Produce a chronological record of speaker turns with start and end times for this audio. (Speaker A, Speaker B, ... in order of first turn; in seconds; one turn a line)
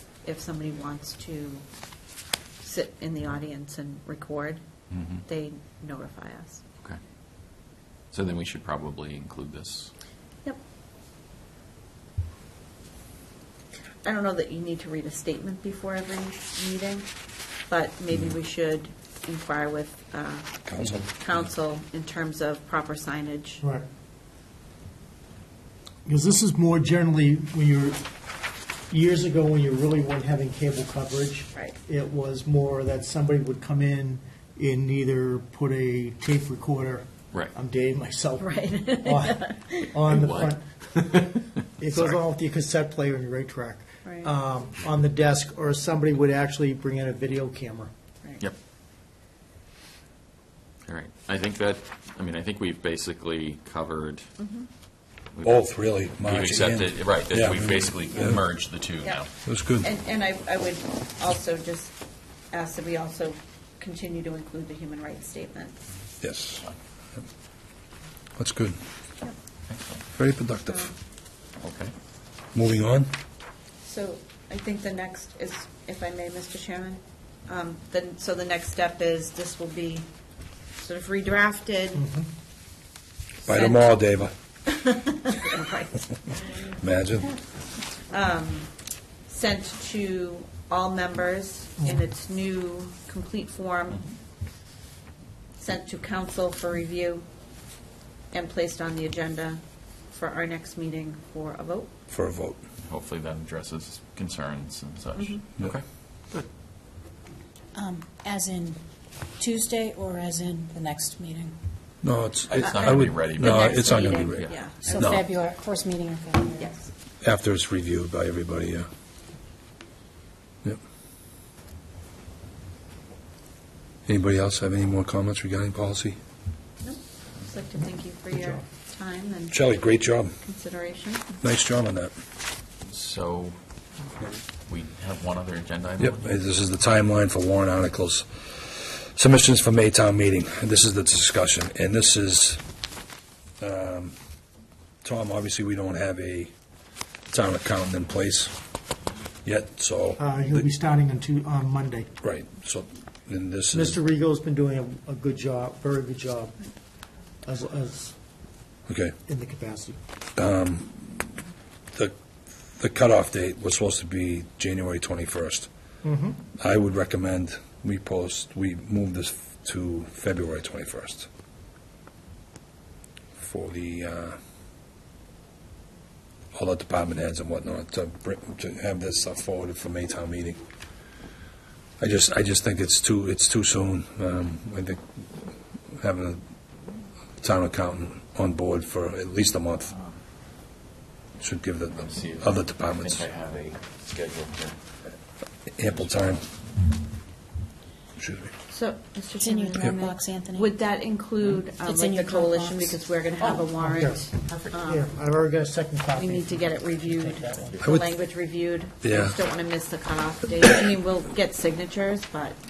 Speaker A: 0.2-1.6
Speaker A: 2.6-4.6
Speaker B: 4.9-5.2
Speaker A: 5.2-6.6
Speaker B: 8.1-9.9
Speaker A: 14.0-17.1
Speaker A: 17.7-23.6
Speaker C: 20.7-21.1
Speaker D: 26.1-28.0
Speaker D: 28.9-41.2
Speaker A: 38.4-40.0
Speaker B: 40.1-42.2
Speaker D: 41.8-47.9
Speaker A: 44.0-44.3
Speaker B: 50.9-54.3
Speaker A: 54.4-54.7
Speaker B: 55.3-55.7
Speaker C: 55.4-58.4
Speaker B: 56.2-59.3
Speaker C: 59.5-59.9
Speaker A: 59.8-62.0
Speaker A: 62.5-65.8
Speaker C: 66.2-66.7
Speaker C: 68.4-68.8
Speaker B: 69.7-70.0
Speaker C: 70.2-70.9
Speaker B: 71.6-71.9
Speaker C: 72.5-73.1
Speaker A: 73.8-80.1
Speaker A: 80.8-82.1
Speaker D: 82.0-82.3
Speaker A: 83.4-83.9
Speaker C: 83.5-84.3
Speaker A: 84.7-86.7
Speaker C: 86.8-87.3
Speaker A: 88.0-88.7
Speaker A: 89.3-94.1
Speaker A: 95.6-97.2
Speaker A: 98.3-101.9
Speaker C: 102.1-102.6
Speaker B: 102.8-106.5
Speaker A: 105.2-105.4
Speaker E: 107.8-108.8
Speaker E: 109.4-111.6
Speaker C: 112.0-115.2
Speaker B: 112.5-114.6
Speaker A: 112.6-115.3
Speaker E: 114.8-116.8
Speaker A: 116.6-116.9
Speaker C: 117.2-118.9
Speaker C: 124.1-126.2
Speaker A: 126.8-129.6
Speaker D: 128.3-128.6
Speaker C: 129.5-130.3
Speaker A: 130.4-131.2
Speaker C: 131.4-132.1
Speaker B: 132.9-133.6
Speaker B: 134.7-136.3
Speaker C: 136.0-142.6
Speaker C: 143.6-144.2
Speaker C: 145.0-146.5
Speaker C: 147.3-148.5
Speaker C: 149.4-150.7
Speaker D: 150.2-152.1
Speaker C: 152.2-154.0
Speaker D: 153.7-156.6
Speaker D: 157.4-158.2
Speaker C: 158.9-159.2
Speaker D: 159.3-160.0
Speaker C: 160.4-161.3
Speaker C: 161.9-165.7
Speaker D: 166.0-166.4
Speaker C: 166.6-171.3
Speaker C: 173.4-174.4
Speaker C: 176.5-180.6
Speaker C: 182.0-185.2
Speaker C: 185.9-186.4
Speaker C: 187.4-189.9
Speaker C: 191.4-193.3
Speaker B: 192.0-194.8
Speaker C: 195.7-196.4
Speaker B: 195.9-196.5
Speaker C: 198.2-198.5
Speaker A: 198.7-205.1
Speaker E: 199.4-200.8
Speaker E: 201.8-203.5
Speaker D: 203.6-207.8
Speaker B: 204.4-204.8
Speaker A: 206.2-212.6
Speaker C: 207.8-208.2
Speaker C: 209.0-209.4